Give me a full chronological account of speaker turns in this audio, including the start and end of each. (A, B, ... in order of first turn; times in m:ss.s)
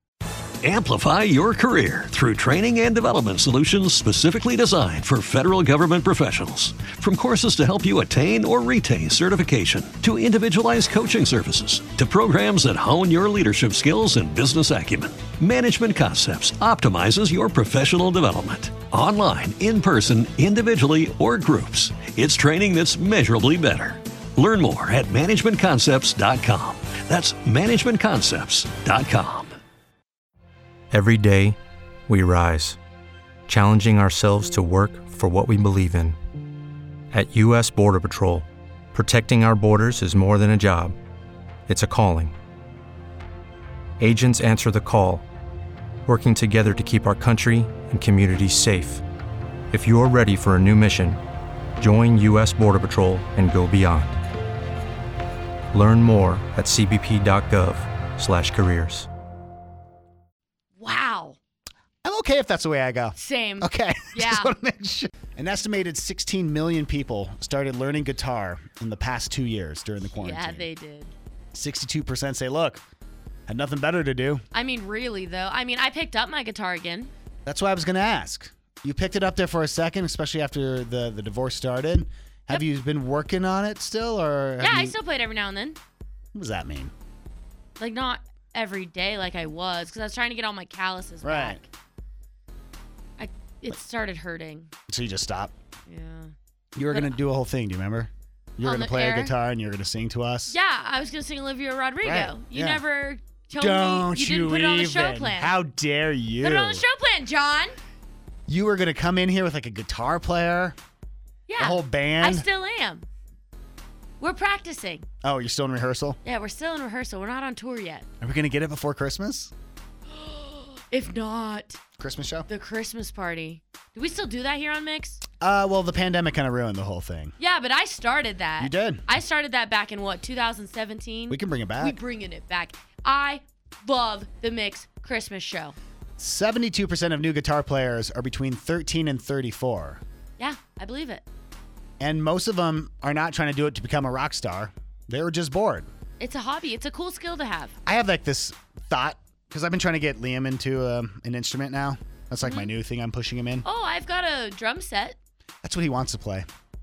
0:00.6-0:29.6 A
0:30.9-0:31.6 B
0:32.1-0:32.8 B
0:33.5-0:36.2 B
0:37.1-0:41.0 B
0:41.7-0:42.3 B
0:44.0-0:45.2 B
0:46.0-0:49.0 B
0:49.7-0:51.2 B
0:51.8-0:54.2 B
0:55.7-0:59.1 B
1:00.8-1:01.4 C
1:02.0-1:10.7 D
1:03.2-1:04.5 C
1:10.1-1:11.1 C
1:11.5-1:12.8 D
1:13.5-1:14.4 D
1:14.5-1:17.1 C
1:17.4-1:25.0 D
1:24.6-1:25.8 C
1:26.3-1:26.9 D
1:27.8-1:31.7 C
1:31.2-1:31.6 D
1:33.2-1:34.7 C
1:34.9-1:35.5 D
1:35.9-1:36.3 C
1:36.8-1:40.5 D
1:36.9-1:37.2 C
1:38.6-1:39.3 C
1:40.5-1:45.5 C
1:42.0-1:42.8 D
1:43.5-1:46.8 D
1:46.4-1:47.8 C
1:48.5-1:50.8 D
1:51.5-1:53.0 C
1:51.6-1:52.5 D
1:54.2-1:55.0 C
1:55.2-1:56.2 D
1:56.2-1:58.0 C
1:58.2-1:59.5 D
2:00.1-2:01.8 C
2:02.0-2:02.5 D
2:02.5-2:05.2 C
2:05.4-2:07.4 D
2:07.4-2:15.8 C
2:08.6-2:09.0 D
2:11.3-2:12.0 D
2:16.2-2:20.0 D
2:20.4-2:21.2 C
2:22.0-2:25.9 D
2:26.2-2:27.7 C
2:27.9-2:33.6 D
2:32.4-2:32.7 C
2:33.6-2:35.2 C
2:35.6-2:36.5 D